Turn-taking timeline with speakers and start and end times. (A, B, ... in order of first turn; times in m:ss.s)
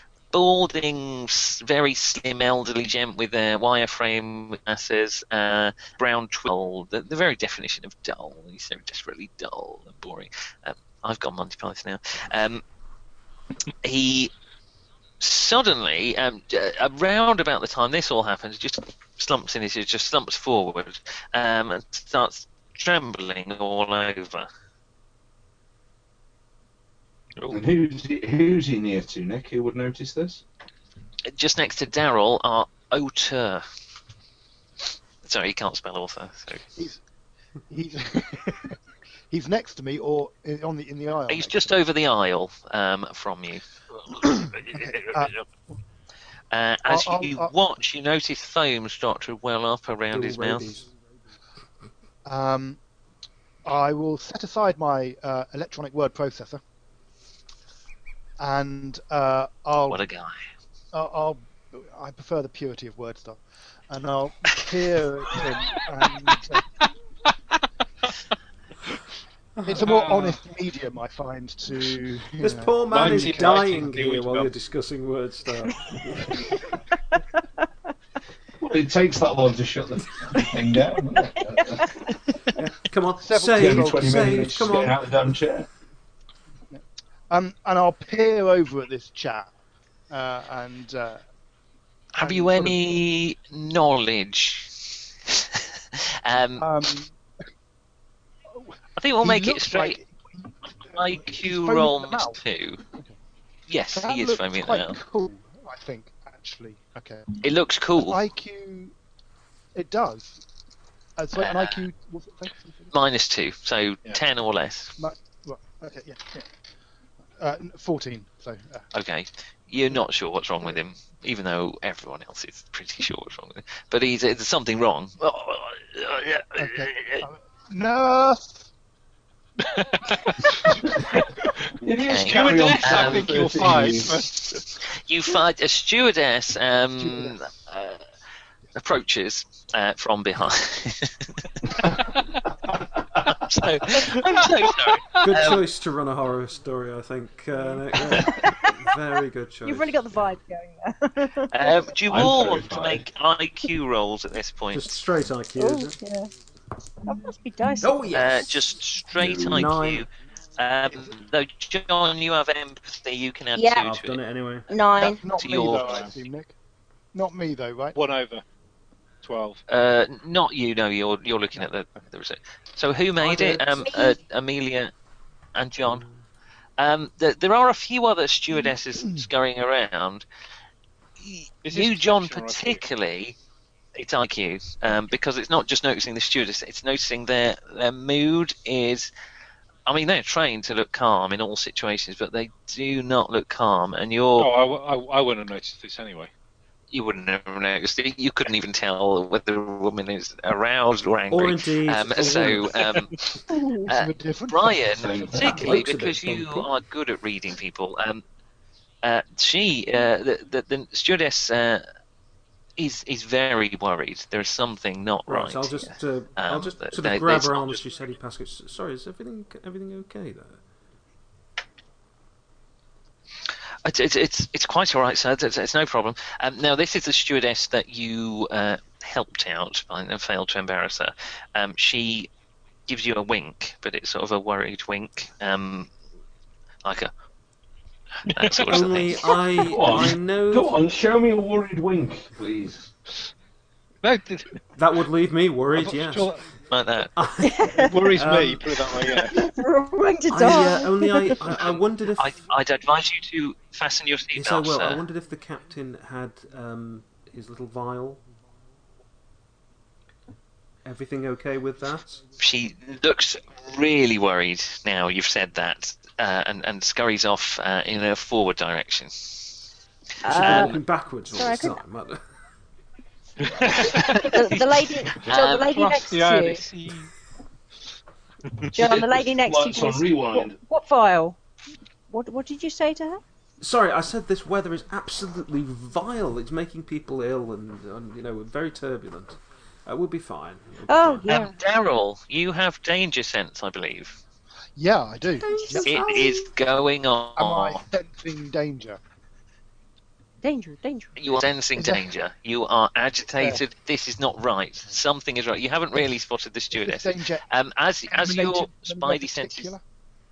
0:00.3-0:12.6 A
0:13.8-0:14.3 A
0:15.2-0:24.5 A
0:27.5-0:30.4 B
0:31.3-0:33.6 A
0:35.2-0:36.6 A
0:37.7-0:38.8 C
0:39.3-0:41.8 C
0:41.3-0:45.4 A
0:44.1-0:45.3 C
0:46.5-0:50.6 A
0:46.9-0:47.5 C
0:50.1-0:50.9 D
0:52.3-0:52.8 C
0:53.6-0:56.6 C
0:58.4-1:00.1 C
0:59.9-1:00.5 A
1:00.9-1:06.6 C
1:09.6-1:13.7 C
1:09.7-1:10.4 E
1:12.4-1:16.5 D
1:12.9-1:14.5 E
1:18.6-1:22.0 B
1:22.6-1:25.3 D
1:23.2-1:24.9 C
1:23.5-1:25.7 B
1:26.7-1:29.5 C
1:30.1-1:31.2 C
1:32.2-1:36.7 A
1:32.2-1:33.0 C
1:36.6-1:37.1 C
1:38.6-1:42.4 C
1:39.0-1:40.0 A
1:40.9-1:42.8 A
1:43.7-1:45.0 A
1:44.0-1:47.4 C
1:47.4-1:48.2 A
1:48.0-1:48.9 C
1:49.8-1:50.4 C
1:51.2-1:52.9 C
1:51.4-1:51.9 A
1:52.9-1:55.0 A
1:55.0-1:56.5 C
1:57.4-1:58.9 C
1:58.9-2:07.3 A
2:06.6-2:08.7 C
2:09.8-2:10.6 E
2:11.8-2:14.2 B
2:12.0-2:13.7 A
2:12.2-2:14.5 E
2:14.9-2:18.0 A
2:17.0-2:17.4 C
2:18.8-2:21.8 A
2:23.3-2:25.7 A
2:25.2-2:30.2 D
2:28.2-2:28.8 F
2:29.6-2:31.6 F
2:31.5-2:35.0 A
2:32.1-2:33.1 B
2:34.7-2:36.0 D
2:35.6-2:36.3 F
2:37.0-2:38.2 F
2:37.8-2:38.7 D
2:38.1-2:44.2 A
2:39.2-2:39.7 B
2:39.4-2:40.1 D
2:43.6-2:43.9 F
2:43.8-2:44.7 D
2:44.7-2:45.2 F
2:45.0-2:46.5 C
2:45.4-2:46.1 A
2:45.8-2:46.1 E
2:47.1-2:48.0 C
2:48.0-2:48.4 E
2:49.2-2:49.6 E
2:49.7-2:54.9 A
2:53.2-2:53.9 D
2:53.8-2:54.2 F
2:55.6-2:56.0 A
2:56.8-3:00.3 A
3:01.2-3:03.4 A
3:01.6-3:02.8 E
3:04.0-3:09.1 A
3:09.9-3:14.5 A
3:14.4-3:16.3 E
3:16.9-3:23.2 A
3:21.3-3:22.8 D
3:23.5-3:25.6 C
3:23.9-3:28.2 A
3:24.9-3:25.7 B
3:25.4-3:26.7 D
3:29.0-3:31.8 A
3:32.8-3:37.8 A
3:35.3-3:40.6 D
3:43.8-3:52.3 A
3:52.9-3:55.9 A
3:56.8-3:57.1 A
3:58.3-3:59.4 A
3:58.3-3:58.6 E
3:58.6-4:00.8 D
3:59.6-4:02.9 B
4:04.0-4:04.6 E
4:04.8-4:06.3 D
4:05.7-4:06.4 E
4:06.7-4:07.1 A
4:07.2-4:08.6 D
4:07.4-4:07.9 F
4:07.8-4:09.4 E
4:09.3-4:11.4 F
4:10.3-4:12.4 D
4:11.6-4:15.0 A
4:14.3-4:18.2 D
4:20.8-4:22.2 D
4:22.4-4:29.6 A
4:30.2-4:30.8 F
4:30.3-4:32.2 D
4:30.3-4:30.8 A
4:31.3-4:31.8 F
4:33.4-4:34.3 E
4:33.8-4:36.0 A
4:34.0-4:36.6 F
4:35.5-4:37.1 E
4:38.7-4:41.4 F
4:38.8-4:40.6 B
4:42.1-4:43.2 F
4:43.6-4:51.3 D
4:50.9-4:51.6 F
4:51.3-4:54.2 A
4:54.8-4:56.0 C
4:55.4-4:56.2 F
4:55.8-4:57.8 A
4:57.4-4:59.0 C
5:00.4-5:01.1 F
5:01.2-5:09.7 A
5:01.8-5:02.1 C
5:06.7-5:07.4 C
5:08.1-5:09.8 C